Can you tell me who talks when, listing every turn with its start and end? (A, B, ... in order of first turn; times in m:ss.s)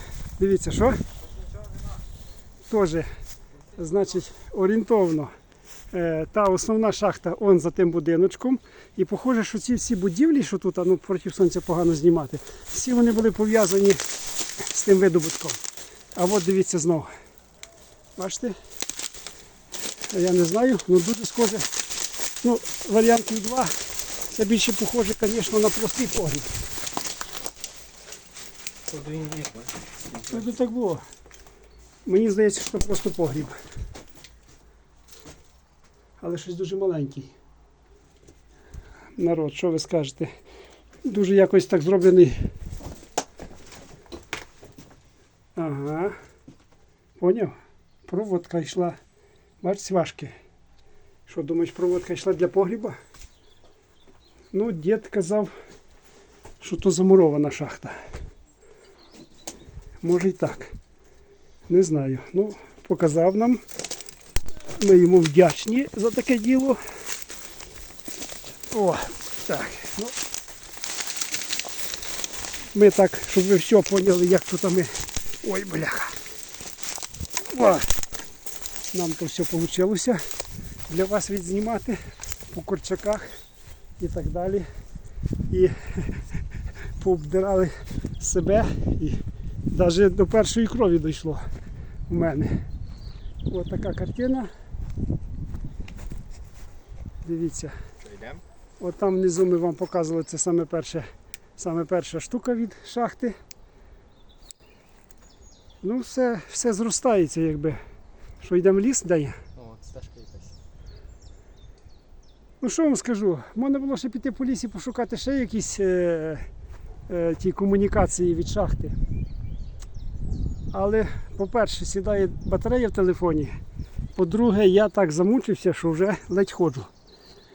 0:00.4-0:01.0 A
0:02.7-0:03.1 A
0:03.7-0:05.3 A
0:05.9-0:14.0 A
0:14.7-0:15.6 A
0:16.2-0:17.1 A
0:18.2-0:18.5 A
0:20.1-0:21.7 A
0:22.4-0:23.7 A
0:24.3-0:26.5 A
0:28.9-0:29.7 B
0:30.3-0:31.0 A
0:32.0-0:33.5 A
0:36.2-0:37.3 A
0:39.2-0:40.3 A
0:41.0-0:42.4 A
0:45.6-0:46.1 A
0:47.2-0:47.5 A
0:48.1-0:49.0 A
0:49.6-0:50.3 A
0:51.3-0:53.0 A
0:54.5-0:55.5 A
0:56.6-0:58.0 A
1:00.0-1:00.7 A
1:01.7-1:03.6 A
1:04.8-1:06.8 A
1:08.7-1:10.1 A
1:12.7-1:14.9 A
1:15.4-1:16.2 A
1:17.5-1:17.9 A
1:18.9-1:20.2 A
1:20.9-1:22.0 A
1:22.5-1:23.3 A
1:24.0-1:24.6 A
1:25.5-1:26.2 A
1:27.0-1:31.4 A
1:32.1-1:32.5 A
1:33.5-1:34.5 A
1:37.2-1:37.7 A
1:38.1-1:38.4 B
1:38.8-1:41.0 A
1:41.6-1:43.3 A
1:45.8-1:47.8 A
1:48.4-1:49.4 A
1:49.6-1:50.6 B
1:52.6-1:56.5 A
1:57.1-1:59.0 A
2:00.7-2:03.6 A
2:04.2-2:06.9 A